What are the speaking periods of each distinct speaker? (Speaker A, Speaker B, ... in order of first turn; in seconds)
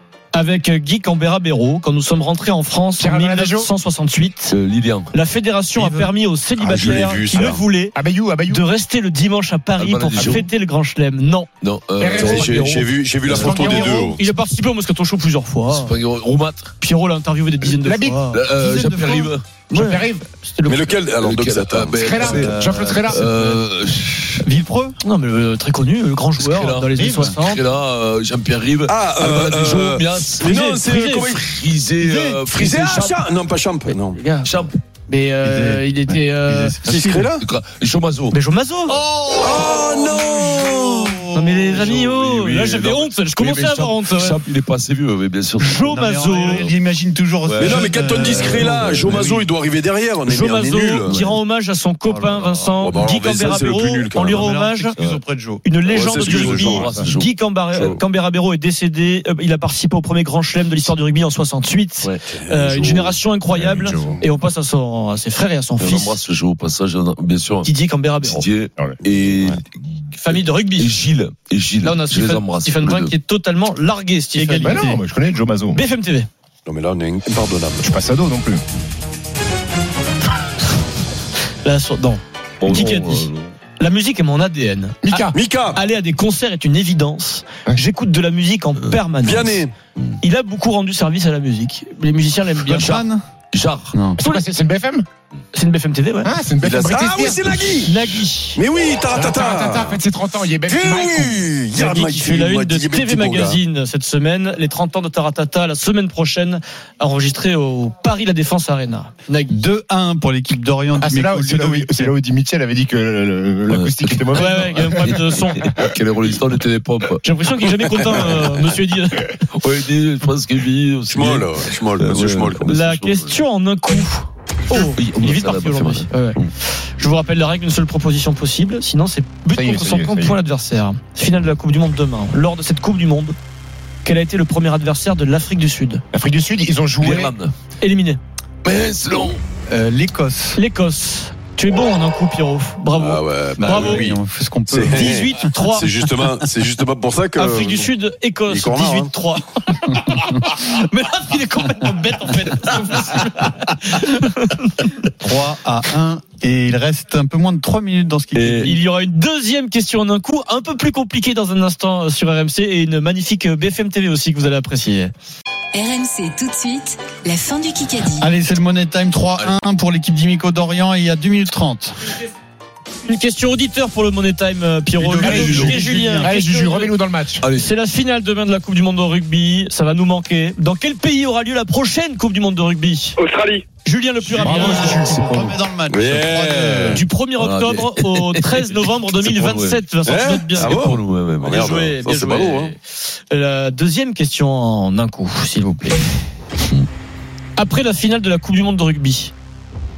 Speaker A: 0.3-4.5, 5.1-8.0, 8.5-11.5, 13.3-15.9, 16.8-18.4, 19.7-21.0, 25.0-27.6, 30.4-31.3, 34.1-36.9, 38.3-39.0, 41.3-44.4, 45.6-46.7, 50.2-54.9, 55.6-66.2, 67.6-68.5, 70.2-70.9, 71.8-74.9, 75.7-76.3, 81.6-89.6, 90.2-93.0, 94.2-94.4, 95.5-96.3, 97.8-98.6, 101.7-109.6, 114.3-115.7, 117.2-119.3, 122.7-126.5, 127.0-133.3, 134.0-136.0, 137.8-138.2, 140.5-144.1, 144.9-145.9, 147.3-155.1, 158.5-165.1, 173.0-176.9, 177.5-183.2, 183.8-185.5, 186.9-190.7, 191.4-196.1, 197.6-199.3
Speaker B: 3.0-3.7, 7.9-8.6, 12.0-12.5, 13.3-14.1, 17.8-18.2, 19.7-20.2, 22.0-23.3, 63.7-64.2, 74.6-75.8, 77.8-78.6, 85.0-85.3, 94.2-95.0, 96.2-97.9, 99.1-101.4, 111.0-115.5, 129.5-130.4, 136.1-137.3, 175.2-177.4, 184.2-185.5
Speaker C: 4.5-5.1, 9.8-10.5, 11.6-12.9, 15.7-16.7, 18.3-19.4, 21.2-24.4, 26.4-30.5, 31.3-33.2, 34.4-34.8, 37.4-38.4, 41.7-46.8, 47.5-49.3, 51.0-51.4, 56.1-58.0, 65.8-73.1, 82.6-83.5, 92.7-93.9, 113.7-117.2, 117.9-118.7, 119.5-123.4, 124.7-126.5, 137.0-137.5, 138.6-139.4, 158.3-158.7, 175.4-175.8, 177.4-177.7, 187.4-189.9, 190.5-191.7
Speaker D: 5.8-6.1, 18.5-19.3, 22.2-23.5, 24.4-24.9, 35.4-37.4, 39.4-42.0, 45.8-49.5, 52.0-52.6, 54.2-55.6, 74.3-75.0, 92.7-93.2, 93.9-94.2, 109.5-112.1, 139.7-140.6, 143.6-145.5, 149.9-150.2, 155.2-158.8, 168.2-171.9, 174.9-176.3, 184.4-187.0
Speaker E: 6.6-7.6, 12.1-14.2, 20.6-22.5, 28.9-31.5, 32.4-34.2, 36.8-37.4, 38.9-41.3, 47.6-51.3, 52.8-54.5, 55.8-57.0, 62.3-63.2, 63.9-64.2, 76.7-77.8, 85.3-85.8, 89.2-89.7, 96.6-100.0, 100.6-103.6, 121.1-122.7, 142.9-147.9, 148.5-149.1, 183.2-183.6, 185.9-187.0, 190.0-192.7
Speaker F: 165.7-168.3